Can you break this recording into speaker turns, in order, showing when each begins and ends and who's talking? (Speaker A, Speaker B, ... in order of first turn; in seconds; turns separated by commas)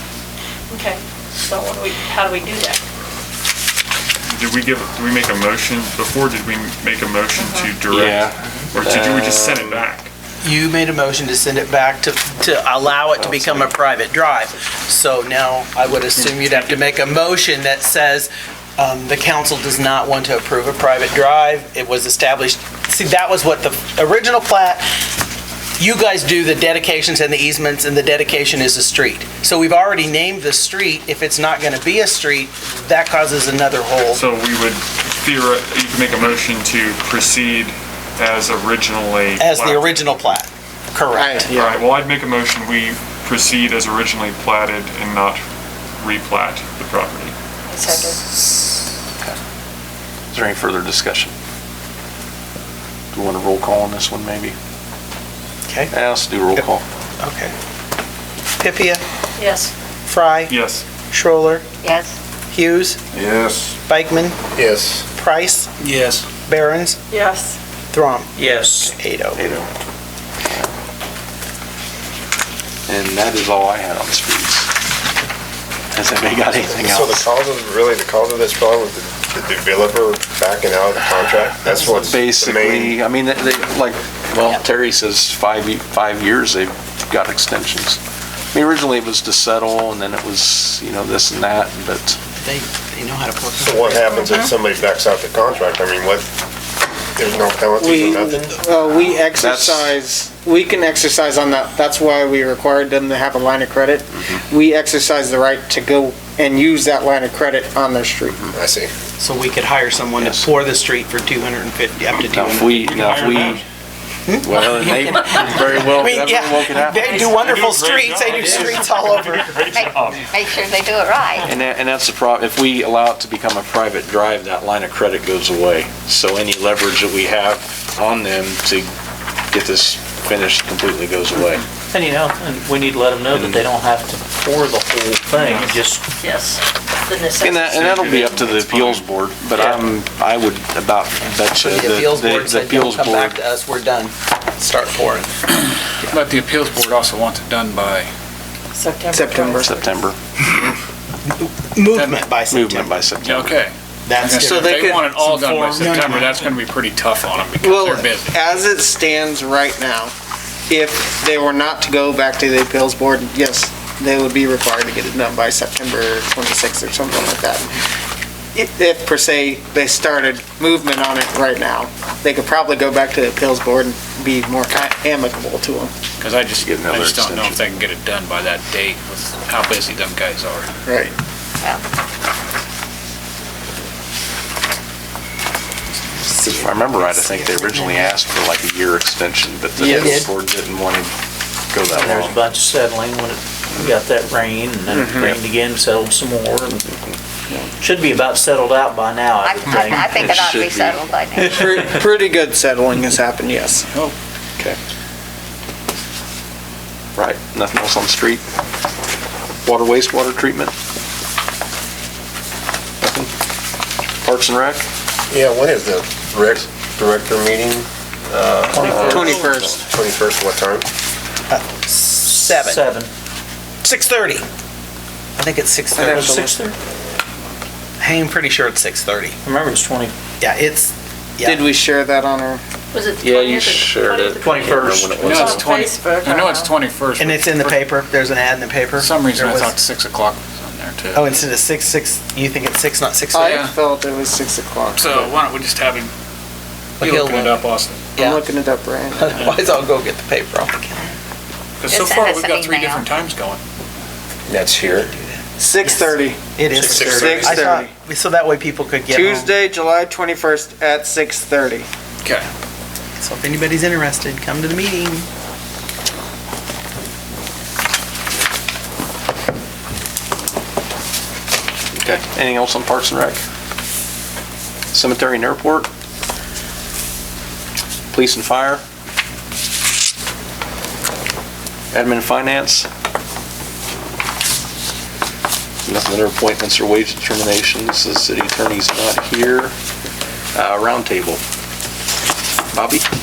Speaker A: 0.7-2.8, Speaker B: 4.3-10.1, Speaker A: 7.4-7.7, Speaker C: 7.9-9.9, Speaker D: 10.4-24.8, Speaker C: 13.1-13.7, Speaker E: 16.2-16.8, Speaker D: 25.8-34.2, Speaker B: 34.1-40.1, Speaker D: 39.4-41.5, Speaker F: 41.1-41.8, Speaker B: 41.5-45.4, Speaker B: 46.0-47.4, Speaker A: 47.7-48.2, Speaker C: 50.3-51.3, Speaker C: 53.1-54.5, Speaker C: 55.9-56.8, Speaker D: 57.2-57.5, Speaker D: 58.6-59.0, Speaker A: 59.4-59.7, Speaker D: 60.0-60.6, Speaker B: 60.5-60.9, Speaker D: 61.1-61.6, Speaker G: 61.8-62.1, Speaker D: 62.5-63.0, Speaker H: 63.1-63.8, Speaker D: 63.9-64.4, Speaker H: 64.5-65.1, Speaker D: 65.2-65.7, Speaker E: 65.8-66.3, Speaker D: 66.5-67.0, Speaker A: 67.1-67.6, Speaker D: 67.9-69.5, Speaker I: 68.4-68.9, Speaker C: 69.4-69.7, Speaker C: 72.9-74.7, Speaker C: 75.9-77.3, Speaker H: 76.7-83.0, Speaker C: 81.9-88.0, Speaker C: 88.5-92.2, Speaker D: 92.4-94.5, Speaker H: 93.6-96.3, Speaker H: 97.2-98.4, Speaker F: 97.8-108.5, Speaker C: 99.4-99.9, Speaker H: 108.5-108.9, Speaker D: 109.2-113.4, Speaker C: 110.2-110.5, Speaker C: 112.3-113.6, Speaker B: 112.6-113.6, Speaker D: 114.3-119.6, Speaker C: 114.4-117.3, Speaker A: 117.0-117.3, Speaker B: 117.3-120.5, Speaker C: 118.4-118.7, Speaker G: 119.7-121.5, Speaker C: 121.4-128.9, Speaker C: 129.5-131.7, Speaker I: 131.9-136.1, Speaker C: 133.3-133.6, Speaker E: 135.3-135.8, Speaker A: 136.2-137.8, Speaker C: 137.4-143.4, Speaker E: 137.7-139.0, Speaker D: 141.6-145.3, Speaker E: 146.0-148.1, Speaker A: 148.8-149.8, Speaker F: 149.1-149.9, Speaker C: 149.6-150.2, Speaker D: 151.3-153.0, Speaker E: 151.9-152.3, Speaker C: 152.5-153.6, Speaker E: 153.2-158.7, Speaker D: 154.1-156.5, Speaker F: 154.4-156.2, Speaker F: 157.6-160.1, Speaker F: 160.7-167.7, Speaker F: 168.6-175.9, Speaker E: 176.2-180.7, Speaker C: 176.6-177.6, Speaker F: 180.9-181.1, Speaker D: 186.3-187.9, Speaker C: 186.5-191.2, Speaker D: 189.8-190.3, Speaker C: 191.7-192.4, Speaker I: 191.9-196.8, Speaker I: 197.8-200.1, Speaker G: 199.4-201.6, Speaker C: 199.8-201.0, Speaker F: 201.4-203.9, Speaker C: 207.2-208.4, Speaker C: 209.7-210.7, Speaker C: 213.0-213.3, Speaker C: 214.2-214.9, Speaker H: 215.3-220.9, Speaker I: 218.7-219.5, Speaker D: 218.8-219.4, Speaker F: 218.9-219.6, Speaker D: 221.5-222.8, Speaker I: 222.2-223.1, Speaker D: 223.8-224.4, Speaker D: 225.4-226.3, Speaker I: 226.0-226.8, Speaker F: 226.1-226.6, Speaker D: 228.0-229.4, Speaker I: 229.4-230.1, Speaker D: 230.4-231.6, Speaker F: 231.4-232.6, Speaker A: 232.9-236.7, Speaker C: 233.2-235.8, Speaker I: 234.4-235.1, Speaker E: 235.2-237.9, Speaker D: 237.2-239.8, Speaker E: 239.0-241.4, Speaker D: 241.1-243.6, Speaker F: 243.3-245.3, Speaker E: 243.4-243.7, Speaker E: 244.9-246.1, Speaker E: 247.0-248.1, Speaker D: 247.0-247.6, Speaker F: 248.2-249.3, Speaker D: 249.1-251.1, Speaker E: 249.3-249.6, Speaker E: 251.8-253.6, Speaker G: 251.9-253.1, Speaker H: 254.5-255.1, Speaker D: 255.2-259.5, Speaker F: 255.6-256.4, Speaker I: 256.7-257.7, Speaker H: 256.9-257.3, Speaker F: 257.1-257.9, Speaker F: 259.1-261.9, Speaker E: 262.2-262.5, Speaker D: 263.2-265.3, Speaker C: 271.9-273.4, Speaker C: 274.9-275.9, Speaker C: 278.1-278.8, Speaker C: 281.9-282.9, Speaker C: 285.9-289.8, Speaker C: 290.5-291.4, Speaker C: 292.7-293.1